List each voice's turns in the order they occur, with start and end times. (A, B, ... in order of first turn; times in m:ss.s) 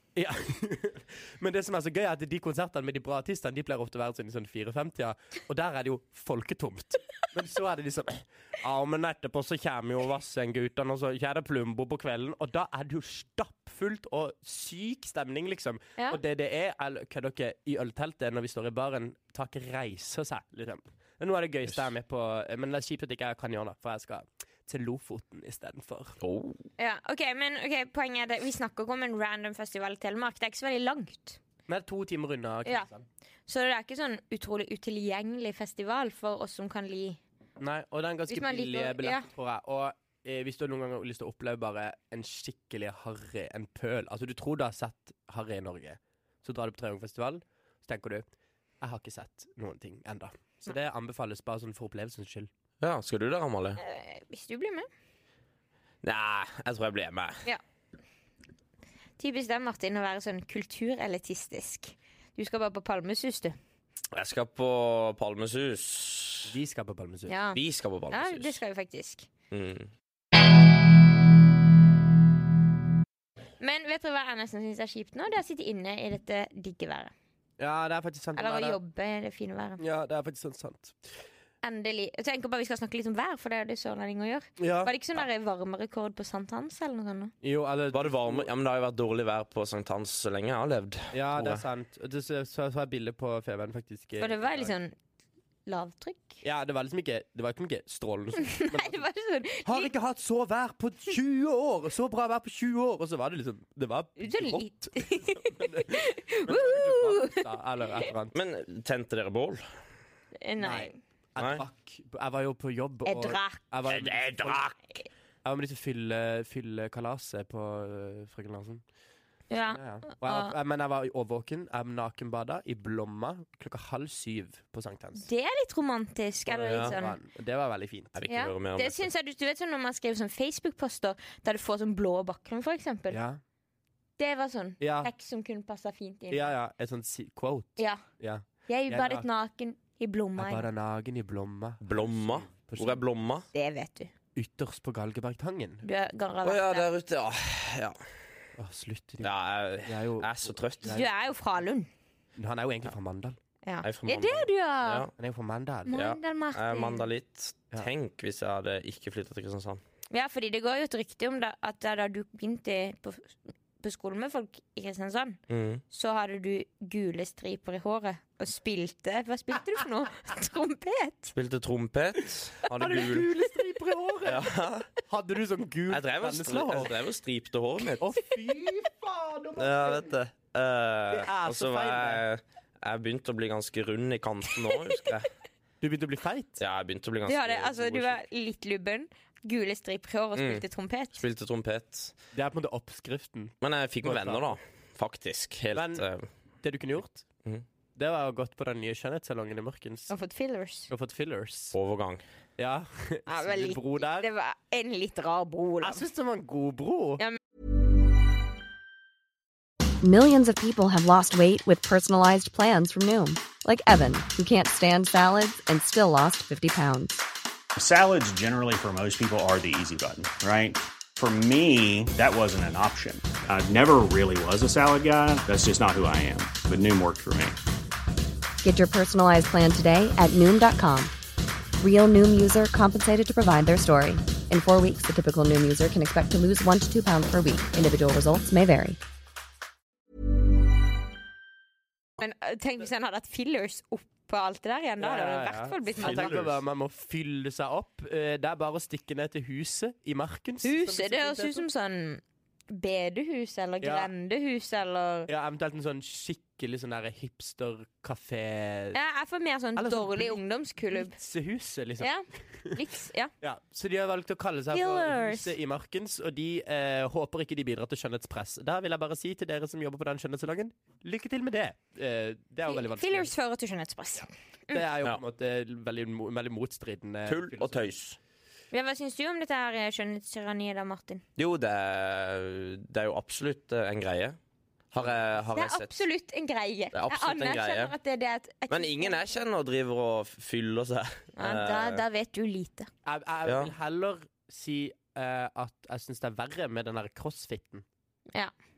0:00.2-0:26.2 A
0:26.2-0:26.6 B
0:26.8-0:31.4 C
0:31.7-0:33.0 A
0:33.5-0:37.2 C
0:37.6-0:48.2 A
0:38.3-0:39.2 C
0:48.8-0:52.5 A
0:52.8-0:53.8 B
0:53.8-0:54.9 C
0:56.0-0:57.4 B
0:59.2-1:03.6 C
1:04.1-1:06.5 B
1:06.4-1:07.3 A
1:07.3-1:09.3 C
1:07.5-1:08.6 B
1:09.5-1:09.9 B
1:13.6-1:17.1 C
1:17.6-1:18.8 A
1:18.4-1:19.8 C
1:19.8-1:21.0 A
1:21.6-1:27.3 C
1:24.6-1:24.9 A
1:27.4-1:28.5 A
1:27.9-1:31.6 B
1:31.1-1:34.7 A
1:34.2-1:34.9 C
1:35.6-1:36.4 C
1:36.4-1:39.0 A
1:38.4-1:39.9 C
1:39.6-1:48.4 A
1:44.2-1:47.4 C
1:48.3-1:49.6 B
1:50.4-1:51.0 C
1:50.6-1:54.7 A
1:51.4-1:51.6 B
1:53.0-1:53.6 C
1:53.9-1:54.8 B
1:55.4-1:58.8 A
1:59.5-2:00.5 C
1:59.7-2:05.3 A
2:05.2-2:07.2 C
2:06.4-2:08.2 A
2:06.7-2:06.9 B
2:08.1-2:09.1 B
2:08.3-2:13.2 C
2:13.1-2:13.4 A
2:14.2-2:16.5 C
2:14.8-2:15.1 A
2:16.3-2:19.2 A
2:18.7-2:20.7 C
2:20.4-2:23.0 A
2:21.8-2:23.5 B
2:23.5-2:24.1 C
2:24.4-2:25.8 A
2:25.8-2:26.9 C
2:26.4-2:28.1 B
2:28.6-2:29.3 A
2:29.2-2:31.0 B
2:29.8-2:31.1 A
2:30.8-2:31.9 C
2:32.4-2:33.4 A
2:33.6-2:35.1 C
2:33.8-2:35.1 B
2:35.2-2:36.0 A
2:35.9-2:37.1 C
2:35.9-2:39.8 B
2:40.1-2:45.4 C
2:45.5-2:45.8 B
2:45.9-2:51.3 C
2:51.3-2:53.3 B
2:52.6-2:54.5 A
2:54.2-2:54.9 B
2:55.0-2:56.9 A
2:55.9-2:58.1 B
2:58.0-3:00.1 A
2:59.6-3:05.3 B
3:01.1-3:02.2 A
3:05.8-3:06.6 A
3:06.6-3:08.2 B
3:07.2-3:11.2 C
3:10.4-3:12.1 B
3:12.3-3:14.6 A
3:13.6-3:16.3 B
3:15.7-3:16.0 A
3:16.6-3:17.2 A
3:17.9-3:20.1 A
3:20.1-3:20.9 C
3:20.9-3:21.8 A
3:21.7-3:22.2 B
3:22.6-3:24.3 A
3:23.3-3:26.0 C
3:25.8-3:27.2 A
3:30.0-3:37.2 D
3:37.8-3:47.6 E
3:48.6-3:51.1 D
3:51.8-3:59.0 D
4:02.2-4:06.4 C
4:05.0-4:11.6 A
4:06.0-4:06.6 B
4:10.6-4:15.3 C
4:13.8-4:14.1 A
4:15.3-4:19.0 A
4:18.9-4:21.2 C
4:19.8-4:20.4 A
4:20.9-4:22.8 A
4:22.0-4:23.3 C
4:23.4-4:33.3 A
4:24.7-4:25.5 C
4:32.7-4:34.8 C
4:34.7-4:37.9 A
4:37.2-4:38.2 B
4:38.7-4:41.2 C
4:41.4-4:44.4 B
4:44.9-4:45.9 B
4:45.5-4:49.3 C
4:46.9-4:47.9 B
4:48.7-4:52.0 B
4:51.4-4:52.9 C
4:53.0-4:57.8 A
4:53.4-4:53.7 B